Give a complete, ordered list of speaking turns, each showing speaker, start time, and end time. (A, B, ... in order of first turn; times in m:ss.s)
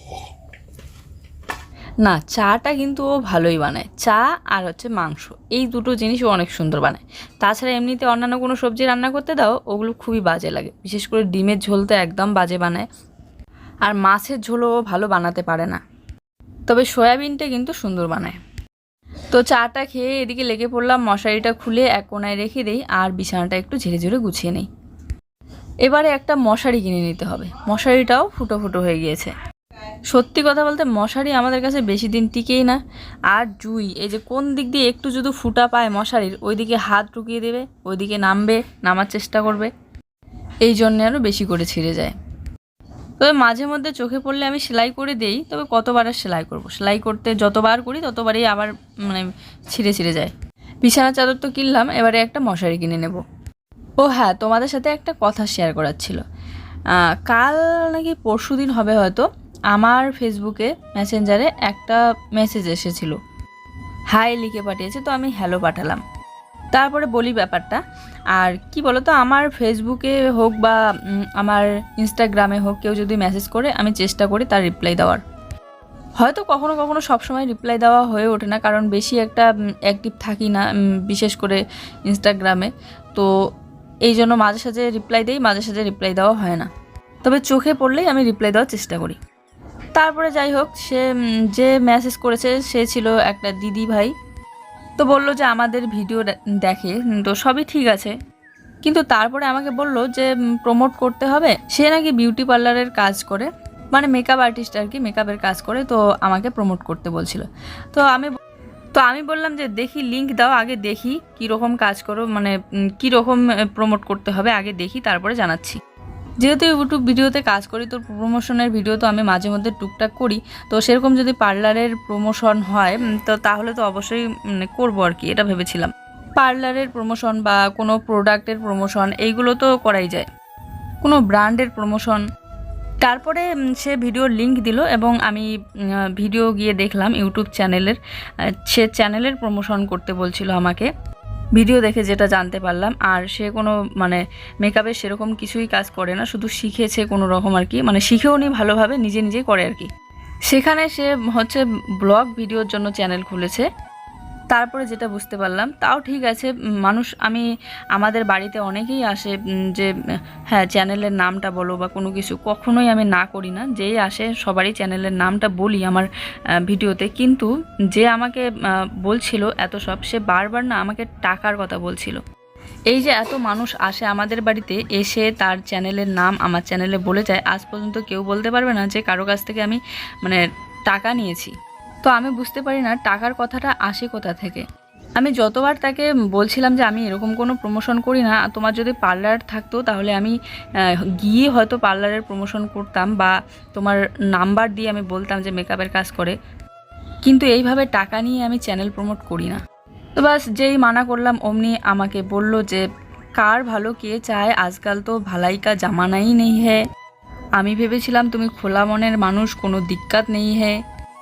0:02.0-0:12.9 A
0:13.8-0:15.8 A
0:16.7-0:18.4 A
0:19.3-0:24.7 A
0:25.8-0:29.3 A
0:30.1-0:39.7 A
0:40.6-0:42.1 A
0:43.2-0:50.3 A
0:50.8-0:53.2 A
0:54.0-0:56.2 A
0:56.9-1:03.2 A
1:04.1-1:06.0 A
1:06.7-1:07.8 A
1:08.4-1:15.2 A
1:16.2-1:23.3 A
1:24.0-1:26.7 A
1:27.2-1:29.2 A
1:30.0-1:34.1 A
1:35.0-1:38.1 A
1:38.8-1:48.4 A
1:49.0-1:55.8 A
1:56.4-2:10.3 A
2:11.0-2:12.2 A
2:13.0-2:15.5 A
2:16.0-2:18.0 A
2:18.5-2:20.9 A
2:21.5-2:29.9 A
2:30.5-2:33.6 A
2:34.5-2:39.9 A
2:40.5-2:46.1 A
2:46.6-2:48.4 A
2:49.0-2:52.2 A
2:52.9-3:01.5 A
3:02.0-3:04.6 A
3:05.2-3:16.4 A
3:17.2-3:19.6 A
3:20.2-3:22.8 A
3:23.4-3:26.8 A
3:27.6-3:30.8 A